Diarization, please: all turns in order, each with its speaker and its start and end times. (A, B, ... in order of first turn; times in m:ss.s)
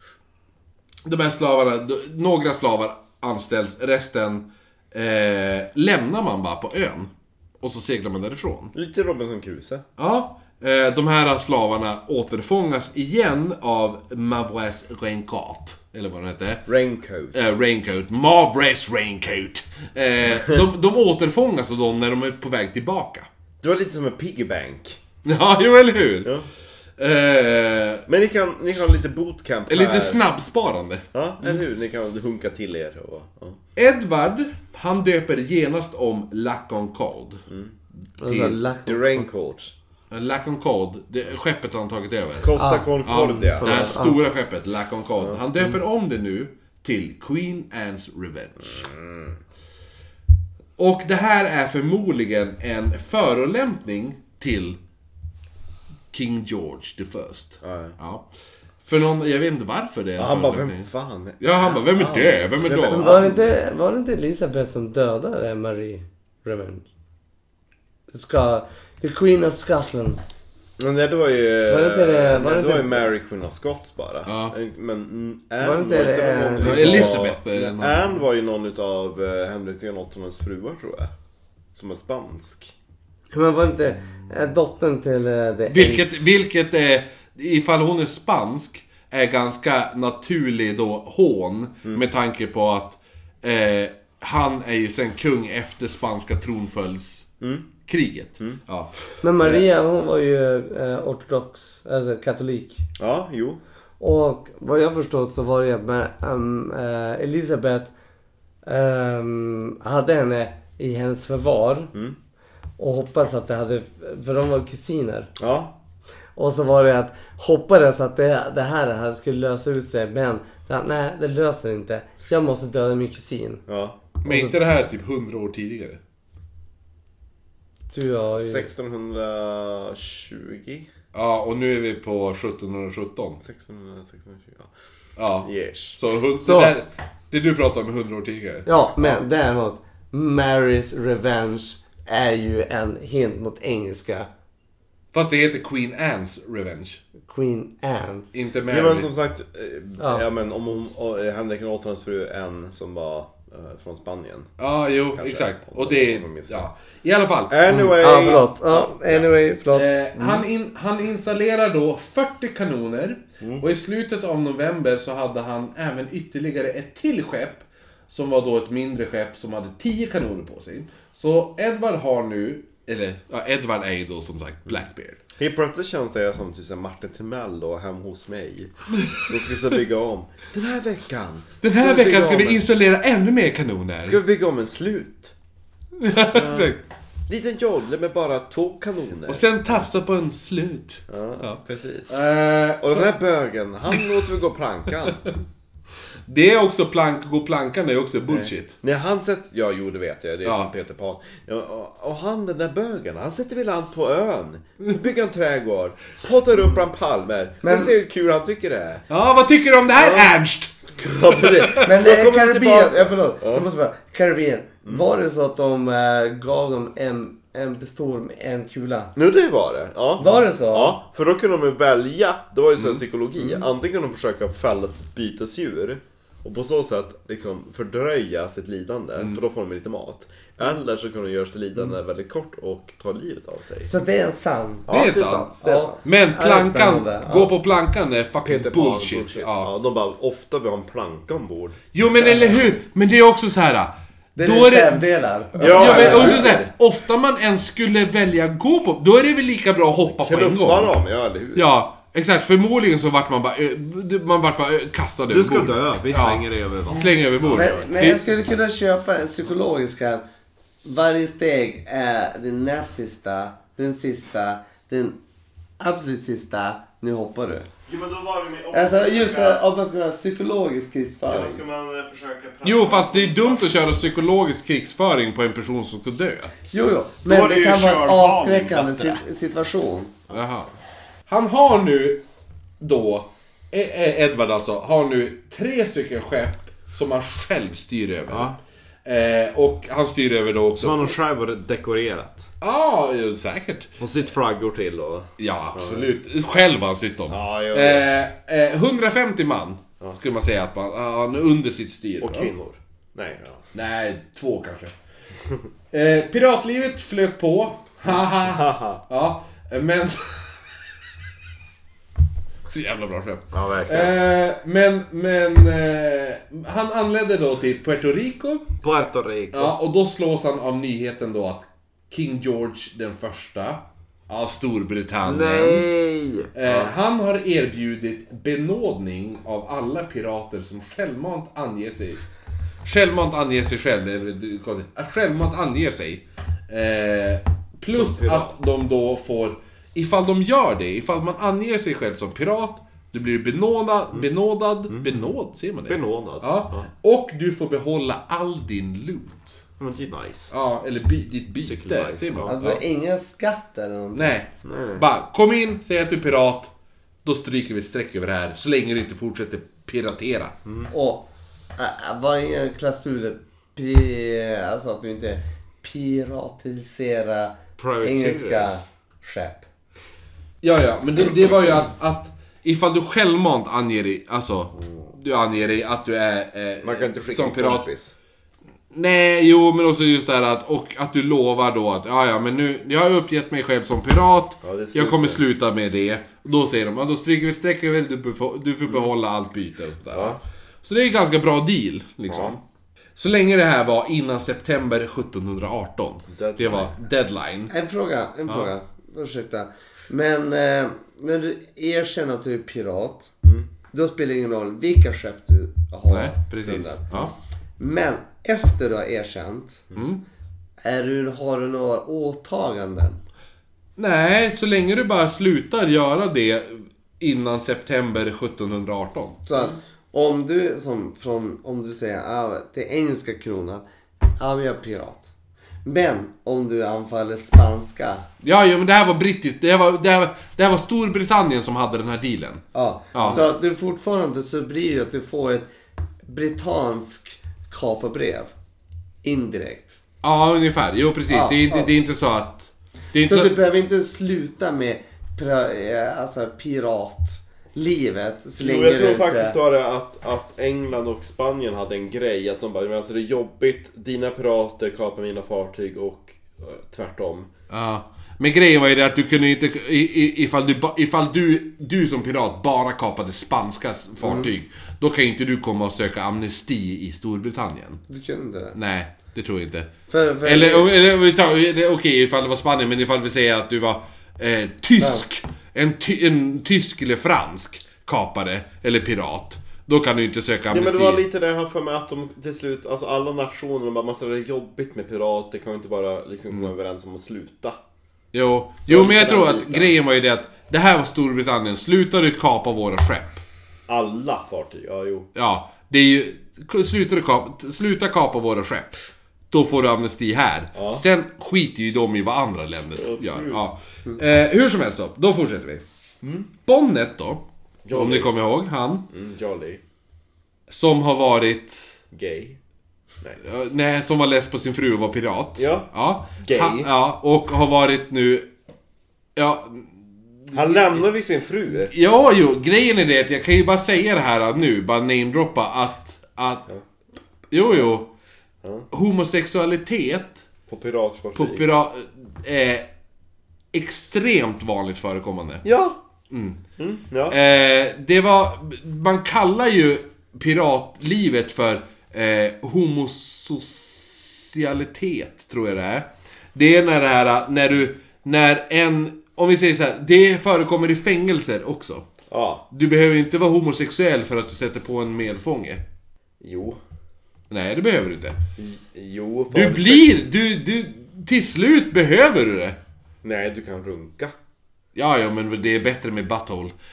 0:01.0-0:07.1 A
0:07.6-0:08.7 A
0:08.7-0:09.8 B
0:10.0-0:16.7 A
0:16.7-0:17.5 B
0:17.3-0:23.3 A
0:23.6-0:25.0 B
0:25.2-0:26.3 A
0:27.0-0:28.1 A
0:28.1-0:30.2 B
0:29.7-0:31.6 A
0:31.1-0:33.6 B
0:33.8-0:37.4 A
0:37.5-0:37.8 B
0:38.2-0:39.2 C
0:38.2-0:38.6 A
0:38.9-0:39.7 B
0:40.1-0:42.5 A
0:42.4-0:44.0 B
0:42.6-0:44.2 C
0:43.0-0:48.9 A
0:48.6-0:49.4 B
0:50.8-0:54.8 A
0:56.1-0:58.2 A
0:57.6-0:58.0 B
0:58.8-1:00.9 A
1:00.2-1:03.4 B
1:01.4-1:03.2 A
1:02.8-1:06.9 C
1:08.1-1:10.2 C
1:10.8-1:21.1 B
1:11.7-1:13.1 C
1:14.3-1:14.6 A
1:15.6-1:17.4 C
1:16.6-1:18.0 A
1:21.8-1:22.7 B
1:23.3-1:26.1 C
1:25.7-1:37.3 A
1:37.4-1:37.7 B
1:37.9-1:38.9 A
1:39.2-1:42.8 C
1:43.0-1:43.6 B
1:44.0-1:47.9 C
1:48.7-1:51.9 C
1:52.8-1:55.3 C
1:55.4-1:55.8 B
1:56.4-2:03.6 C
2:03.7-2:04.0 B
2:04.2-2:04.6 C
2:04.2-2:06.0 A
2:07.9-2:08.7 C
2:08.4-2:10.9 B
2:11.1-2:13.4 A
2:13.4-2:14.7 B
2:15.2-2:19.1 A
2:15.4-2:16.0 B
2:16.4-2:16.7 C
2:18.7-2:24.3 C
2:25.1-2:27.0 A
2:27.3-2:28.3 C
2:28.3-2:29.1 A
2:28.7-2:34.5 B
2:30.0-2:30.2 C
2:34.6-2:37.9 A
2:35.1-2:36.6 B
2:37.5-2:39.2 B
2:37.7-2:40.4 C
2:39.7-2:55.2 A
2:43.4-2:43.7 B
2:55.4-3:02.7 B
3:01.6-3:04.2 A
3:04.0-3:05.4 B
3:06.0-3:06.8 A
3:06.2-3:06.8 B
3:07.3-3:09.9 B
3:09.3-3:13.1 A
3:11.1-3:12.1 B
3:12.8-3:15.4 B
3:16.3-3:18.8 A
3:18.3-3:29.0 B
3:20.4-3:20.7 A
3:27.6-3:27.9 C
3:29.1-3:31.8 A
3:30.0-3:30.3 B
3:31.0-3:33.7 B
3:31.8-3:39.1 C
3:39.2-3:53.9 B
3:40.2-3:41.0 C
3:53.9-3:54.9 C
3:54.9-3:56.0 B
3:54.9-3:55.5 A
3:55.6-3:57.6 C
3:56.0-3:59.7 A
3:58.4-4:01.8 B
4:01.9-4:10.9 A
4:02.2-4:02.6 C
4:04.4-4:06.5 C
4:05.6-4:06.7 B
4:10.1-4:11.7 B
4:11.6-4:18.2 A
4:15.3-4:18.2 B
4:17.5-4:20.2 C
4:20.8-4:25.2 C
4:25.8-4:27.7 C
4:27.9-4:29.7 B
4:28.7-4:31.6 C
4:31.3-4:34.0 B
4:32.6-4:36.5 A
4:36.7-4:40.1 C
4:37.2-4:39.2 B
4:40.3-4:40.7 A
4:41.3-4:42.2 A
4:42.8-4:51.2 A
4:48.3-4:48.6 B
4:50.8-4:52.5 B
4:52.6-4:53.9 A
4:54.0-4:56.1 B
4:55.4-5:02.5 A
4:57.3-4:58.1 B
5:02.2-5:03.6 B
5:03.7-5:04.9 A
5:05.9-5:10.6 A
5:08.1-5:09.0 B
5:12.7-5:18.8 A
5:13.5-5:14.2 B
5:18.8-5:19.8 B
5:19.5-5:25.9 A
5:25.2-5:27.0 B
5:26.6-5:32.2 A
5:32.8-5:49.6 A
5:37.9-5:38.6 B
5:44.9-5:45.3 B
5:45.9-5:46.9 B
5:49.8-5:50.5 B
5:50.5-5:52.6 A
5:51.6-5:52.8 B
5:52.5-5:54.3 C
5:54.2-5:56.7 A
5:54.6-5:55.0 B
5:57.2-6:00.6 A
6:00.6-6:00.9 B
6:00.9-6:09.7 C
6:07.8-6:08.8 B
6:10.6-6:17.9 A
6:16.8-6:18.2 B
6:18.9-6:32.6 A
6:24.6-6:25.4 B
6:30.1-6:30.4 B
6:32.3-6:32.6 B
6:33.2-6:37.7 A
6:36.3-6:36.9 B
6:37.7-6:43.3 C
6:43.4-6:43.7 B
6:43.9-6:47.1 C
6:46.1-6:47.3 A
6:47.8-6:49.9 C
6:50.0-6:50.2 A
6:50.8-6:53.2 C
6:54.0-6:59.4 A
6:59.5-7:03.8 C
7:04.4-7:05.3 C
7:05.8-7:08.3 C
7:08.4-7:12.6 A
7:12.7-7:15.7 C
7:13.1-7:13.4 A
7:13.2-7:13.5 B
7:16.2-7:18.5 C
7:19.2-7:20.0 C
7:20.2-7:23.6 A
7:21.3-7:21.9 C
7:23.2-7:29.6 C
7:28.6-7:37.5 B
7:37.7-7:48.0 A
7:44.2-7:44.5 C
7:48.1-7:48.8 C
7:48.8-7:49.9 A
7:50.1-7:50.9 C
7:50.4-8:01.2 A
7:55.0-7:55.2 C
8:00.7-8:07.8 B
8:08.3-8:13.4 A
8:08.9-8:10.0 B
8:13.9-8:15.3 B
8:15.4-8:25.8 A
8:20.8-8:21.0 B
8:23.0-8:23.6 B
8:26.2-8:26.5 B
8:26.7-8:29.0 A
8:27.8-8:28.3 B
8:29.1-8:29.8 B
8:30.7-8:31.9 A
8:32.1-8:32.6 B
8:33.4-8:38.5 A
8:35.6-8:36.9 B
8:39.4-8:41.0 A
8:40.5-8:41.9 B
8:41.9-8:46.7 A
8:47.5-8:48.1 A
8:48.6-8:48.9 B
8:48.9-8:50.4 A
8:50.7-8:51.7 B
8:51.4-8:52.9 A
8:53.7-8:55.6 A
8:55.6-8:56.0 B
8:56.3-8:56.6 A
8:56.8-8:57.4 B
8:57.3-9:12.1 A
9:12.3-9:12.6 B
9:12.7-9:15.8 A
9:16.4-9:16.8 B
9:17.5-9:18.4 A
9:18.6-9:20.2 B
9:19.5-9:22.8 A
9:23.2-9:24.3 B
9:25.0-9:26.7 A